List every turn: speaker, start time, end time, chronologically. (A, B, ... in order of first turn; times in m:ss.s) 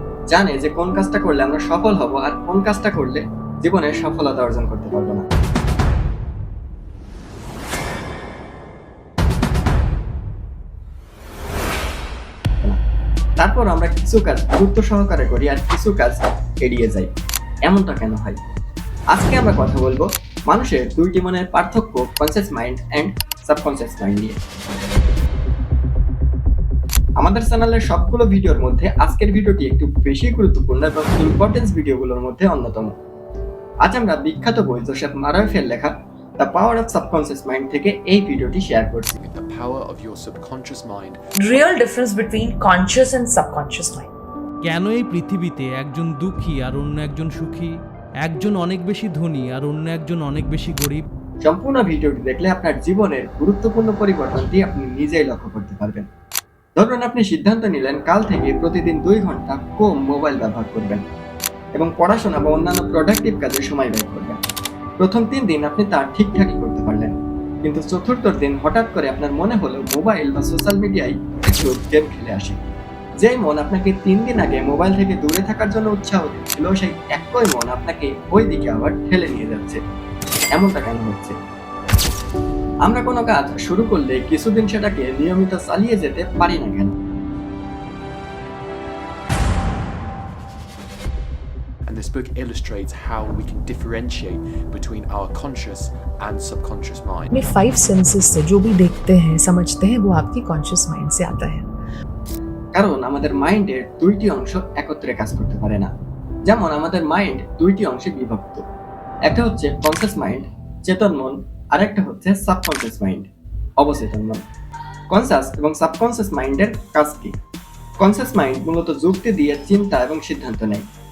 0:00.3-0:05.3 A
0:13.4-0:17.1 A
0:17.7-0:18.5 A
0:19.1-0:24.4 A
0:27.2-0:32.9 A
0:33.8-0:39.2 A
0:39.2-0:41.2 B
0:41.4-0:44.1 C
0:44.6-0:51.0 D
0:51.4-0:56.1 A
0:56.8-1:01.0 A
1:01.8-1:04.4 A
1:05.0-1:12.6 A
1:13.2-1:19.8 A
1:20.6-1:21.4 A
1:22.8-1:26.9 A
1:31.9-1:37.3 B
1:37.3-1:41.7 C
1:42.8-1:45.9 A
1:46.5-1:48.6 A
1:49.3-1:53.3 A
1:53.8-1:54.4 A
1:55.1-1:57.3 A
1:58.0-2:00.8 A